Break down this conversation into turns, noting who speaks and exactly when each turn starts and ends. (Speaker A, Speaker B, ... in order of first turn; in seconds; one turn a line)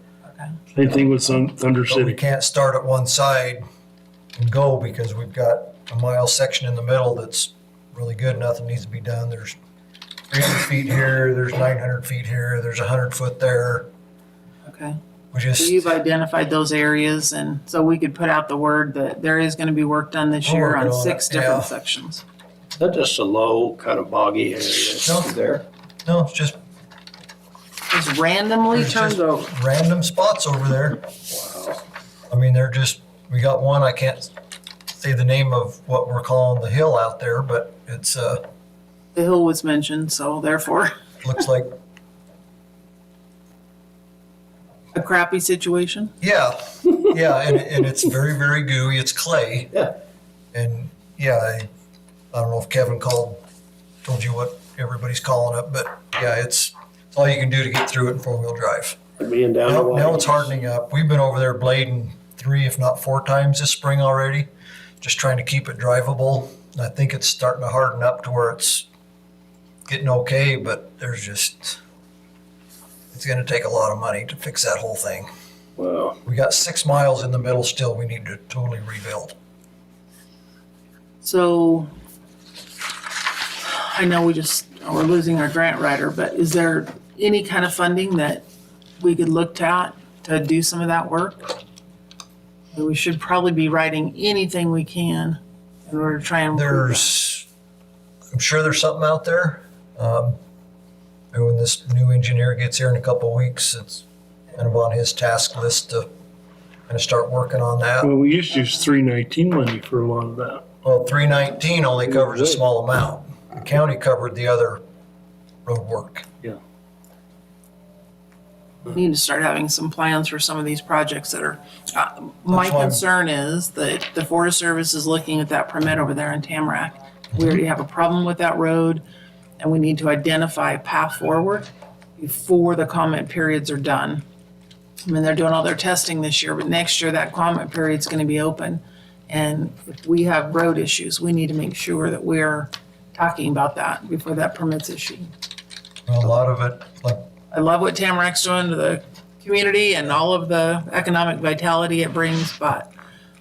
Speaker A: 0.7-2.2
Speaker B: 1.9-3.6
Speaker B: 4.4-9.6
Speaker B: 10.3-13.9
Speaker C: 14.7-15.0
Speaker B: 15.3-15.9
Speaker C: 15.6-22.2
Speaker B: 20.4-21.7
Speaker D: 22.8-25.6
Speaker B: 25.1-25.3
Speaker B: 26.1-26.6
Speaker C: 27.9-29.5
Speaker B: 28.7-31.1
Speaker D: 31.3-31.8
Speaker B: 32.3-34.3
Speaker B: 35.0-38.4
Speaker C: 39.1-40.9
Speaker B: 41.2-41.7
Speaker C: 44.9-46.1
Speaker B: 46.2-49.8
Speaker B: 50.5-51.7
Speaker B: 52.3-53.4
Speaker B: 54.0-59.0
Speaker D: 59.2-60.5
Speaker B: 59.7-64.5
Speaker B: 65.0-68.9
Speaker B: 69.9-71.8
Speaker B: 73.1-75.3
Speaker A: 75.8-76.2
Speaker B: 76.2-79.3
Speaker C: 81.2-81.9
Speaker C: 83.6-88.5
Speaker C: 89.0-91.5
Speaker C: 92.7-97.1
Speaker B: 96.5-97.5
Speaker B: 98.3-100.4
Speaker B: 101.3-106.1
Speaker B: 106.9-108.1
Speaker A: 108.0-110.6
Speaker B: 110.8-114.8
Speaker A: 112.0-112.6
Speaker B: 115.7-116.3
Speaker C: 118.8-129.0
Speaker B: 122.5-123.0
Speaker C: 129.6-134.2
Speaker C: 135.0-145.3
Speaker B: 146.1-147.3
Speaker C: 147.5-152.9